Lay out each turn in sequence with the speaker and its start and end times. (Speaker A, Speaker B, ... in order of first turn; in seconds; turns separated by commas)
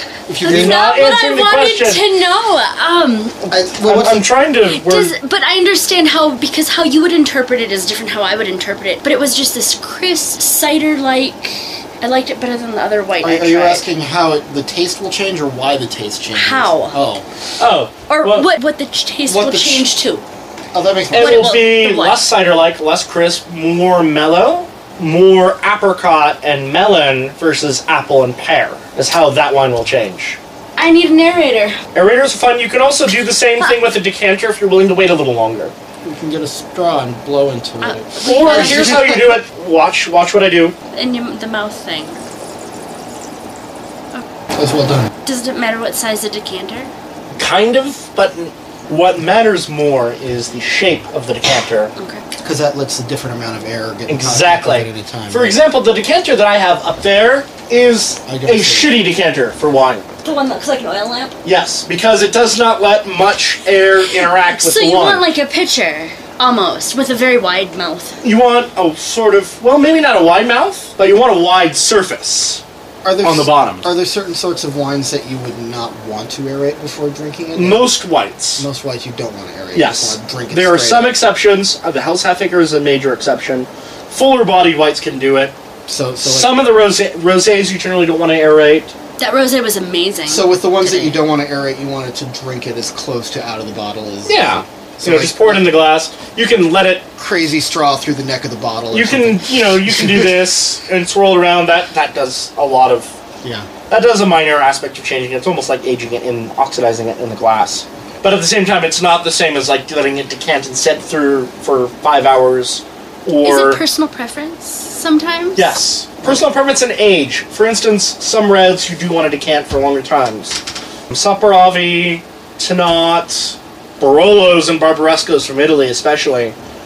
Speaker A: 0.3-0.9, Speaker B: 0.4-3.4, Speaker C: 0.4-2.0, Speaker A: 3.5-4.3, Speaker C: 3.8-5.1, Speaker B: 4.6-13.8, Speaker A: 13.2-17.2, Speaker B: 16.3-17.0, Speaker C: 17.6-18.5, Speaker B: 18.1-20.2, Speaker A: 19.3-19.9, Speaker A: 20.7-21.6, Speaker C: 21.1-30.4, Speaker B: 21.1-22.2, Speaker B: 30.8-31.8, Speaker C: 31.9-35.7, Speaker A: 36.0-39.3, Speaker B: 37.8-39.2, Speaker C: 38.2-40.8, Speaker B: 40.9-42.2, Speaker A: 44.5-45.1, Speaker B: 45.2-46.9, Speaker C: 47.4-51.9, Speaker B: 52.0-52.2, Speaker A: 52.4-55.6, Speaker C: 54.1-60.0, Speaker A: 58.3-59.0, Speaker B: 60.2-61.4, Speaker C: 61.4-65.2, Speaker B: 64.4-68.2, Speaker C: 68.2-72.6, Speaker A: 73.0-77.9, Speaker C: 73.2-73.9, Speaker C: 77.6-78.7, Speaker A: 78.6-81.2, Speaker C: 79.8-85.5, Speaker A: 85.9-86.7, Speaker C: 86.2-88.9, Speaker B: 89.2-91.2, Speaker A: 90.3-95.7, Speaker C: 94.3-97.1, Speaker A: 97.2-100.4, Speaker C: 98.9-103.1, Speaker A: 103.4-103.7, Speaker C: 103.9-113.8, Speaker B: 113.4-115.8, Speaker C: 115.6-126.5